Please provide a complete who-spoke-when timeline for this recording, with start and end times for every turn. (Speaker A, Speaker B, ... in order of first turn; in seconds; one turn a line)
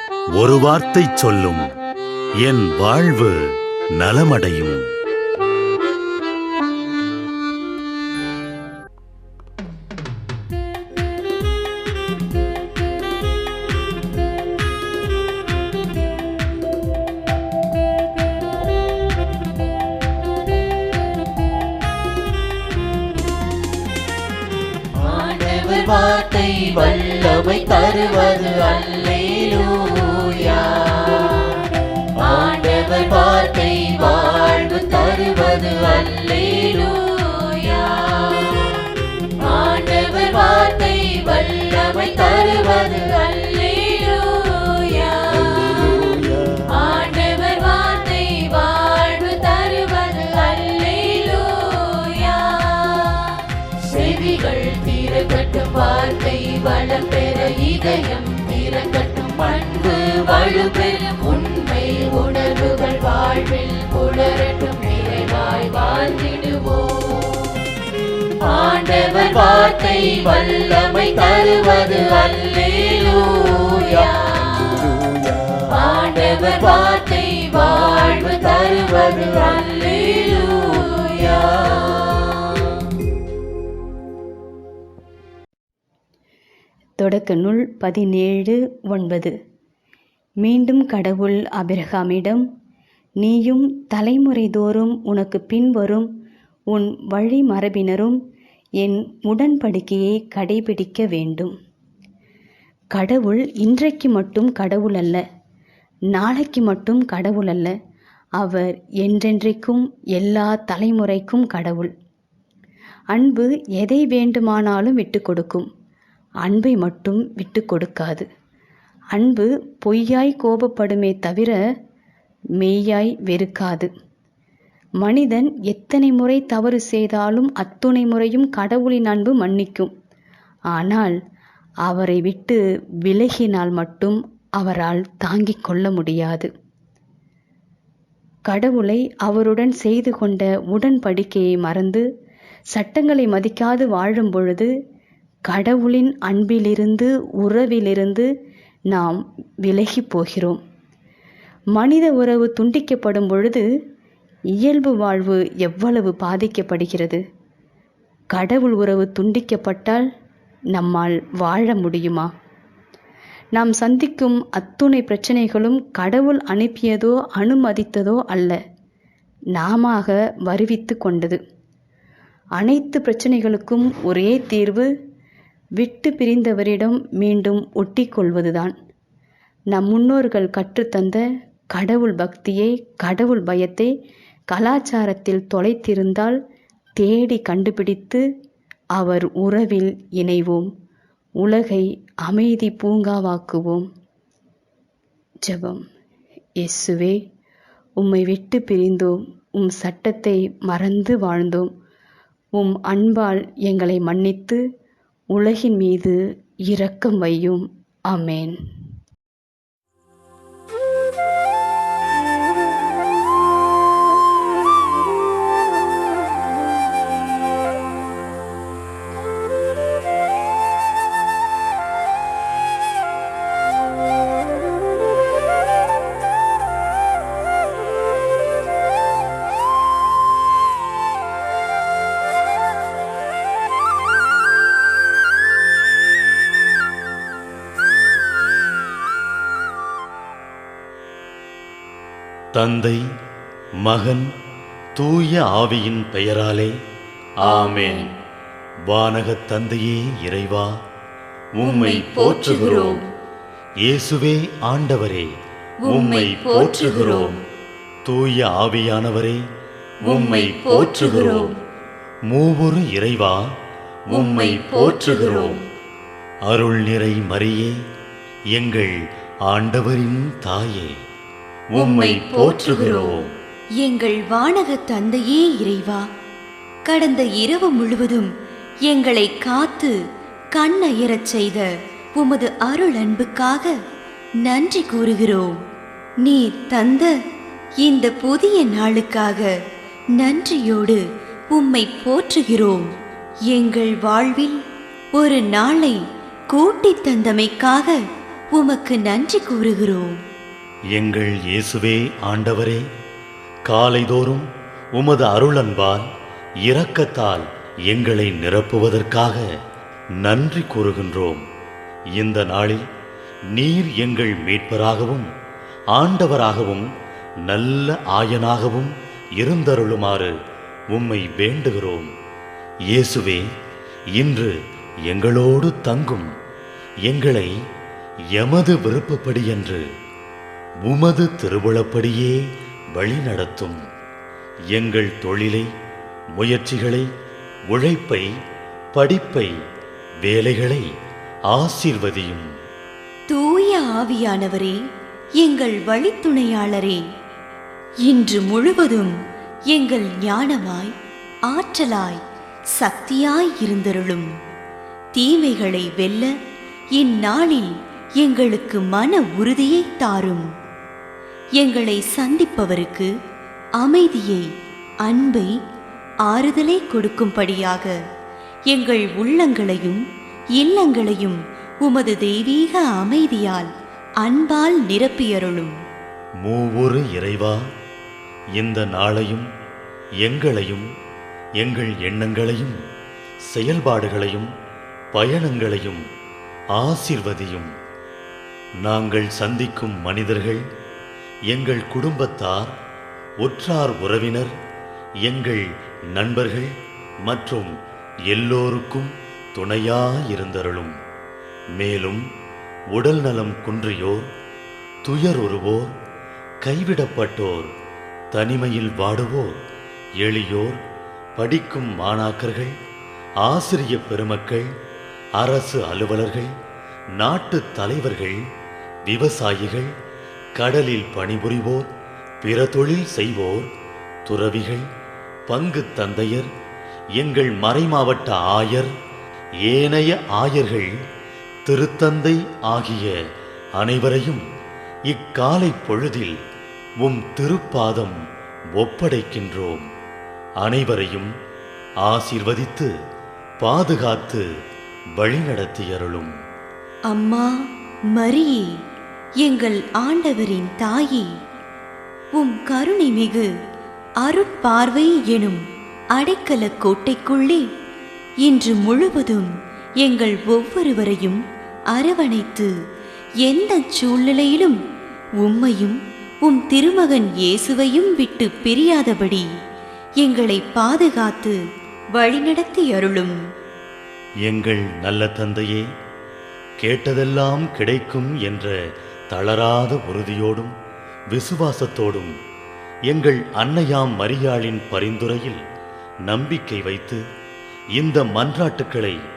Speaker A: 0.3-1.7
Speaker A: 2.4-4.8
Speaker B: 24.9-38.9
Speaker B: 39.4-67.6
Speaker B: 68.4-74.9
Speaker B: 75.5-82.7
Speaker C: 87.0-89.3
Speaker C: 90.4-92.5
Speaker C: 93.2-96.1
Speaker C: 96.7-98.2
Speaker C: 98.8-101.5
Speaker C: 103.0-105.2
Speaker C: 106.1-107.7
Speaker C: 108.4-111.9
Speaker C: 113.1-115.7
Speaker C: 116.5-118.3
Speaker C: 119.2-121.6
Speaker C: 122.6-123.9
Speaker C: 125.0-129.9
Speaker C: 130.8-131.2
Speaker C: 131.9-136.5
Speaker C: 138.5-142.1
Speaker C: 142.8-144.7
Speaker C: 145.5-148.3
Speaker C: 148.9-150.6
Speaker C: 151.8-153.7
Speaker C: 154.6-157.2
Speaker C: 158.3-160.1
Speaker C: 160.8-162.3
Speaker C: 163.6-168.6
Speaker C: 169.6-171.4
Speaker C: 172.6-174.9
Speaker C: 175.8-178.7
Speaker C: 179.7-181.2
Speaker C: 181.7-183.9
Speaker C: 184.5-186.4
Speaker C: 187.0-188.2
Speaker C: 189.0-190.7
Speaker C: 191.4-193.9
Speaker C: 195.5-195.8
Speaker C: 196.6-197.2
Speaker C: 198.0-201.7
Speaker C: 202.6-204.6
Speaker C: 205.3-208.6
Speaker A: 242.6-243.1
Speaker A: 243.8-244.3
Speaker A: 245.0-246.7
Speaker A: 247.4-248.1
Speaker D: 247.4-248.1
Speaker A: 248.9-250.7
Speaker A: 251.6-253.0
Speaker D: 251.6-253.0
Speaker A: 253.8-255.3
Speaker D: 255.8-257.4
Speaker A: 255.9-257.4
Speaker A: 258.1-259.4
Speaker A: 260.1-261.5
Speaker D: 260.1-261.5
Speaker A: 262.3-263.4
Speaker A: 264.1-265.6
Speaker D: 264.1-265.6
Speaker A: 266.5-267.8
Speaker A: 268.6-268.9
Speaker A: 269.5-270.9
Speaker A: 271.8-273.3
Speaker D: 271.8-273.2
Speaker D: 273.8-276.0
Speaker D: 276.9-278.3
Speaker D: 278.9-279.9
Speaker D: 280.6-283.7
Speaker D: 284.4-285.6
Speaker D: 286.2-287.1
Speaker D: 287.8-289.5
Speaker D: 290.2-292.9
Speaker D: 293.5-294.6
Speaker D: 295.2-296.0
Speaker D: 296.5-298.0
Speaker D: 298.5-300.1
Speaker A: 300.9-302.9
Speaker A: 303.7-306.1
Speaker A: 306.6-309.4
Speaker A: 310.2-311.4
Speaker A: 312.2-312.8
Speaker A: 313.5-315.3
Speaker A: 315.9-316.9
Speaker A: 317.5-320.3
Speaker A: 320.9-322.1
Speaker A: 322.9-323.5
Speaker A: 324.2-324.5
Speaker A: 325.1-326.3
Speaker A: 327.1-327.5
Speaker A: 328.4-329.8
Speaker A: 330.8-332.4
Speaker A: 332.9-333.8
Speaker A: 334.7-335.7
Speaker A: 336.4-337.1
Speaker A: 337.7-338.3
Speaker A: 338.9-339.5
Speaker A: 340.2-340.9
Speaker A: 341.5-342.5
Speaker D: 343.3-344.8
Speaker D: 345.4-347.0
Speaker D: 348.1-349.1
Speaker D: 349.7-350.9
Speaker D: 351.5-352.2
Speaker D: 352.8-354.3
Speaker D: 355.2-356.3
Speaker D: 357.0-357.7
Speaker D: 358.2-360.5
Speaker D: 361.6-363.1
Speaker D: 363.8-364.5
Speaker D: 365.1-365.5
Speaker D: 366.3-368.0
Speaker D: 368.7-370.0
Speaker D: 370.6-373.7
Speaker D: 374.2-375.7
Speaker A: 376.4-377.6
Speaker A: 378.6-379.5
Speaker A: 380.2-380.9
Speaker A: 381.6-382.8
Speaker A: 383.5-384.5
Speaker A: 385.1-386.0
Speaker A: 386.8-387.7
Speaker A: 388.9-390.6
Speaker A: 391.5-392.7
Speaker A: 393.4-394.5
Speaker A: 395.3-395.6
Speaker A: 396.1-396.7
Speaker A: 397.2-397.7
Speaker A: 398.3-400.9
Speaker A: 401.8-402.2
Speaker A: 402.9-404.3
Speaker A: 405.1-405.9
Speaker A: 406.6-407.7
Speaker A: 408.3-409.6
Speaker A: 410.2-410.8
Speaker A: 411.4-412.7
Speaker A: 413.4-414.7
Speaker A: 415.4-416.5
Speaker A: 417.2-418.4
Speaker A: 419.1-419.9
Speaker A: 420.6-421.9
Speaker A: 422.4-423.7
Speaker A: 424.3-424.9
Speaker A: 425.5-426.5
Speaker A: 427.2-428.9
Speaker A: 429.7-430.9
Speaker A: 431.7-433.1
Speaker A: 433.8-434.4
Speaker A: 435.1-436.4
Speaker A: 437.0-438.2
Speaker A: 438.8-439.8
Speaker A: 440.6-441.3
Speaker A: 442.0-442.9
Speaker A: 443.6-444.4
Speaker A: 445.2-446.3
Speaker D: 447.1-447.5
Speaker D: 448.1-448.7
Speaker D: 449.4-451.3
Speaker D: 452.4-453.5
Speaker D: 454.2-455.6
Speaker D: 456.2-457.6
Speaker D: 458.4-459.5
Speaker D: 460.0-461.4
Speaker D: 461.9-462.7
Speaker D: 463.4-464.8
Speaker D: 465.4-469.4
Speaker D: 470.2-471.6
Speaker D: 472.2-473.4
Speaker A: 474.5-475.9
Speaker A: 476.8-478.8
Speaker A: 479.3-480.7
Speaker A: 481.3-482.3
Speaker A: 483.1-485.6
Speaker A: 486.3-487.2
Speaker A: 487.9-489.2